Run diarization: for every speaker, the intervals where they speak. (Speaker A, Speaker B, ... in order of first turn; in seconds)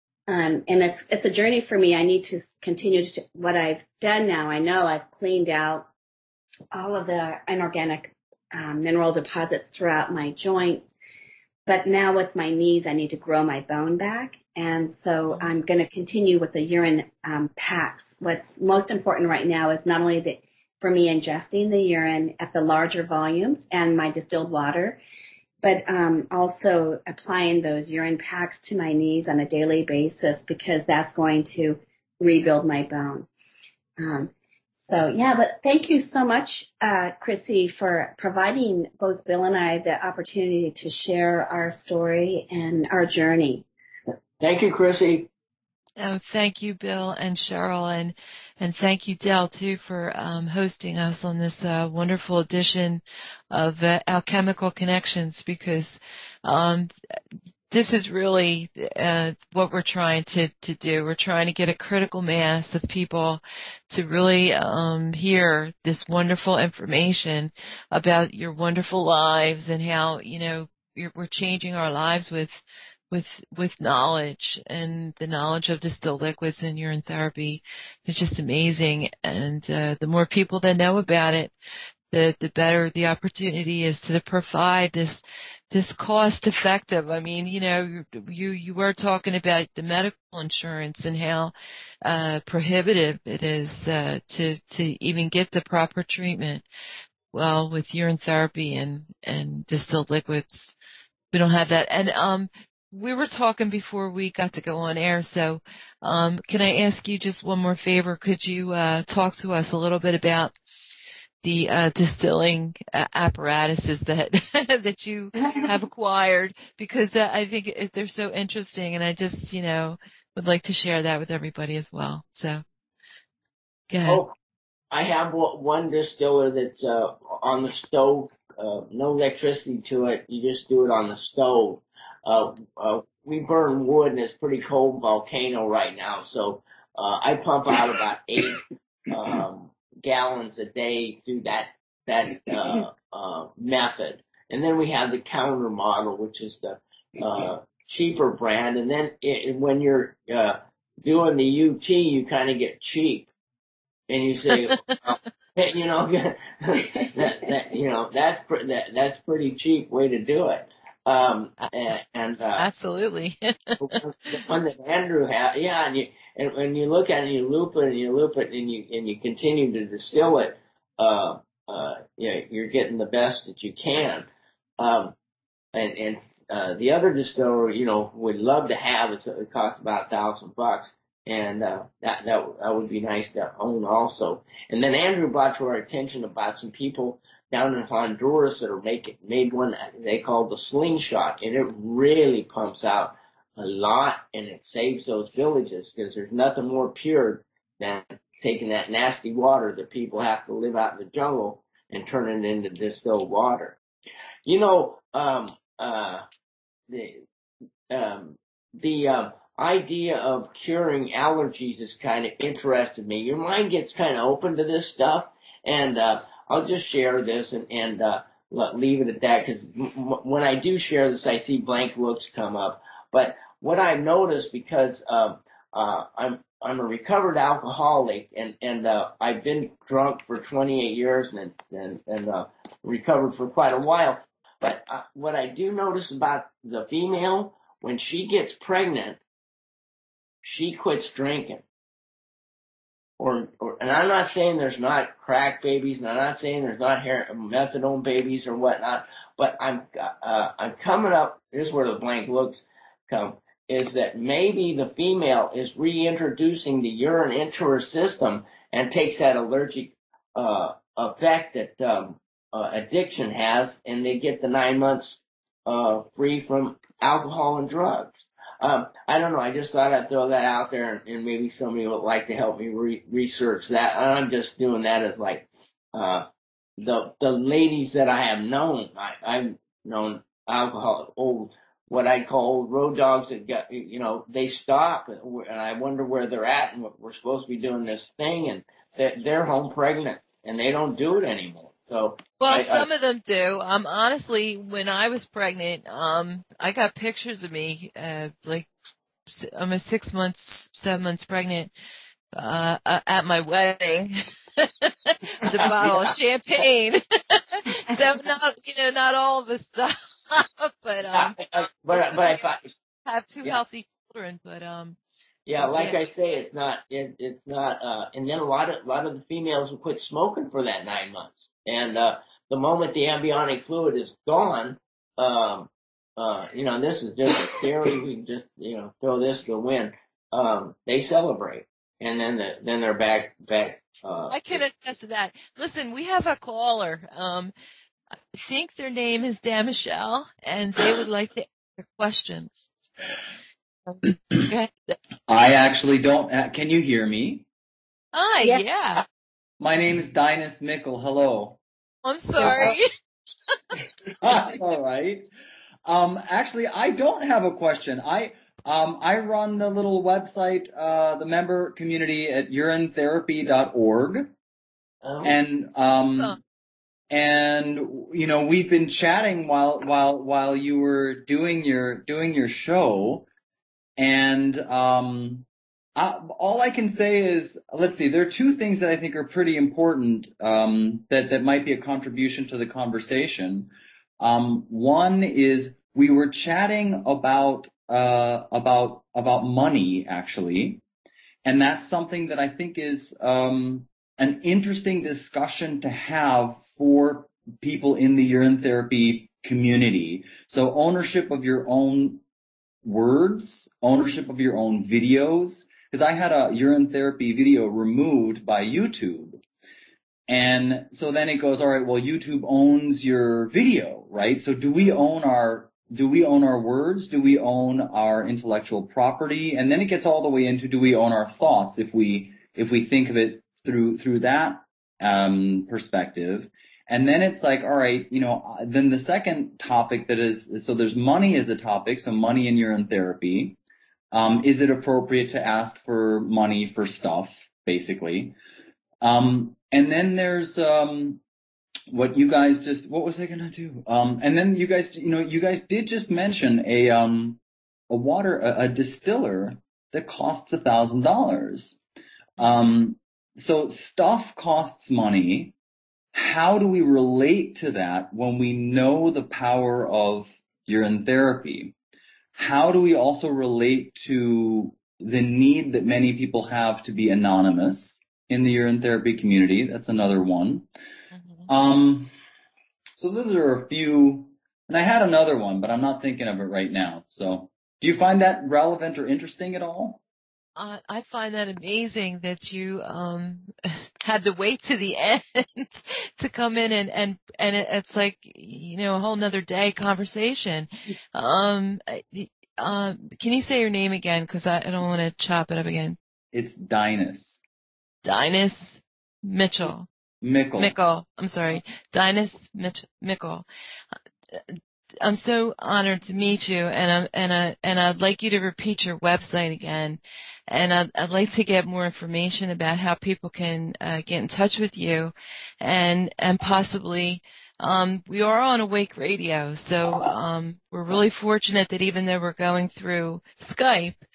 Speaker A: 0.3-5.9, 6.7-10.9, 11.7-25.0, 25.6-33.3, 34.0-34.3, 34.9-43.6, 115.4-115.7, 352.4-352.7
Speaker B: 44.4-45.3, 124.1-124.3, 124.9-153.3, 154.1-162.7, 163.8-174.3, 174.8-175.1, 175.7-203.8, 204.4-206.2, 206.9-207.2, 207.9-239.2, 240.4-241.6, 243.2-276.3, 276.8-292.9, 305.5-306.0, 311.1-312.7, 315.4-334.6, 365.0-365.4
Speaker C: 46.0-56.9, 57.7-72.5, 73.1-81.5, 82.1-96.6, 97.3-100.7, 101.3-110.5, 111.4-122.6, 123.9-124.2, 162.6-164.0, 292.4-298.7, 299.3-301.7, 302.3-311.4, 311.9-312.4, 313.0-315.0, 315.6-316.0, 334.3-337.5, 338.3-342.6, 343.9-344.9, 348.1-349.0, 352.0-352.8, 471.1-471.5, 480.6-496.0, 498.0-499.9, 500.6-503.4, 505.0-524.0
Speaker D: 345.3-347.4, 349.6-351.6, 354.2-355.3, 355.8-364.3, 365.2-366.4, 367.1-373.3, 374.0-390.8, 391.4-402.2, 402.8-409.4, 410.3-433.6, 434.1-438.4, 439.0-441.2, 441.9-451.8, 452.4-455.5, 456.1-461.7, 462.3-470.6, 471.5-472.1, 473.0-480.0, 496.3-497.4, 500.2-500.7